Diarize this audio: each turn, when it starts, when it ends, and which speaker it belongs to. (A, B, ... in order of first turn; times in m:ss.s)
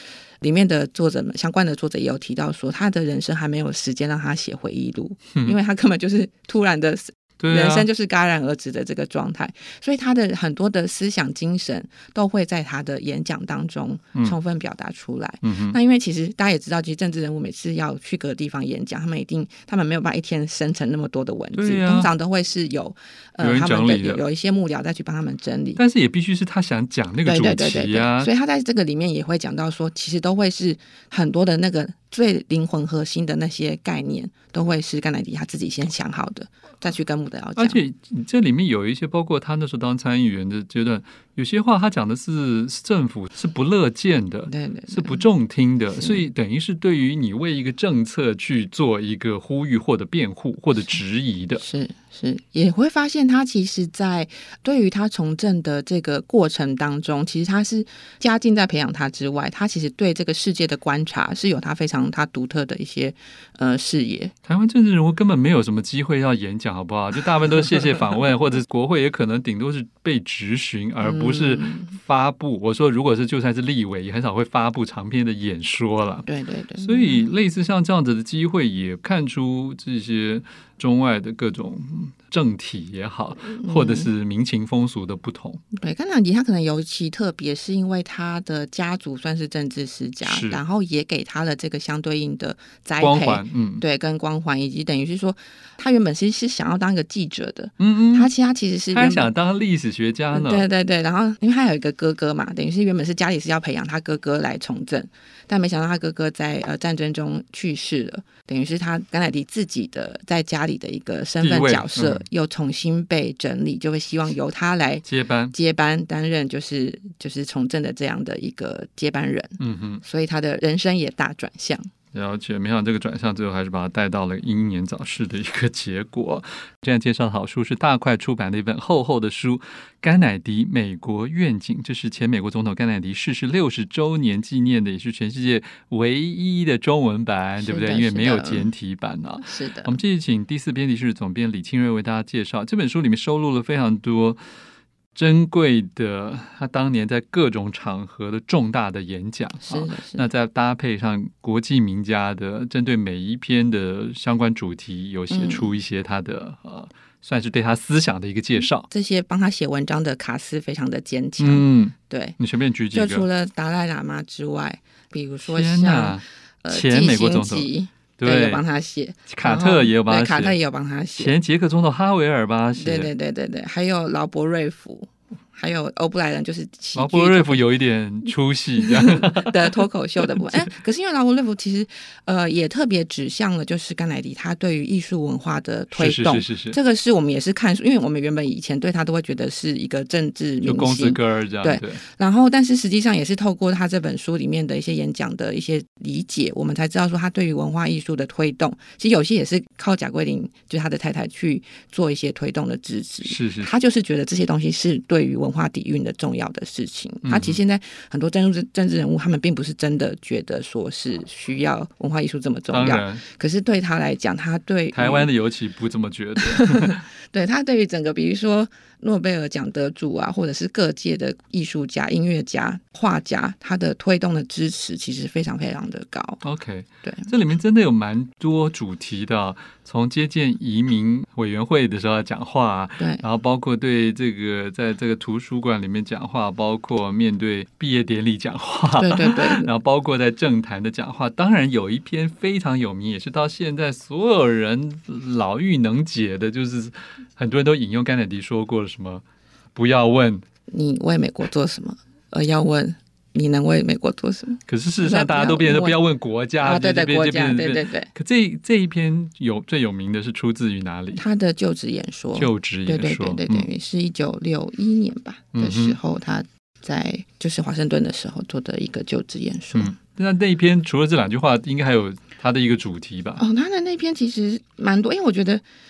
0:00.4-0:25.8 A
0:07.4-0:07.9 B
0:15.4-0:15.8 B
0:21.5-0:22.1 B
0:23.4-0:24.2 B
0:25.8-0:28.3 B
0:27.2-0:37.8 A
0:37.6-0:51.6 B
0:44.5-0:45.2 A
0:46.0-0:46.2 A
0:51.6-1:04.3 A
1:04.4-1:25.6 B
1:11.0-1:12.0 A
1:16.2-1:17.3 A
1:23.5-1:24.1 A
1:25.8-1:39.3 A
1:30.2-1:30.6 B
1:33.0-1:33.8 B
1:37.8-1:38.3 B
1:38.9-1:40.7 B
1:40.3-2:01.9 A
1:51.4-1:52.2 B
1:55.0-1:55.5 B
1:59.6-2:00.0 B
2:02.1-2:24.4 B
2:17.6-2:18.7 A
2:19.4-2:20.0 A
2:25.1-2:38.9 B
2:29.6-2:30.2 A
2:35.3-2:35.7 A
2:38.9-2:42.4 A
2:41.4-2:43.2 B
2:42.9-2:51.3 A
2:45.4-2:48.6 B
2:49.3-2:50.6 B
2:51.2-2:53.1 B
2:52.7-2:57.7 A
2:56.9-3:00.7 B
2:58.8-3:35.3 A
3:05.9-3:06.8 B
3:10.6-3:12.0 B
3:23.2-3:23.7 B
3:27.2-3:27.6 B
3:32.7-3:33.2 B
3:34.9-3:37.0 B
3:36.4-3:46.4 A
3:46.4-4:10.4 B
3:47.0-3:47.3 A
3:59.0-3:59.7 A
4:10.7-4:16.0 A
4:14.7-4:21.2 B
4:16.6-4:18.1 A
4:21.1-4:30.0 A
4:22.3-4:23.7 B
4:25.5-4:26.0 B
4:29.7-4:33.4 B
4:33.4-4:35.6 A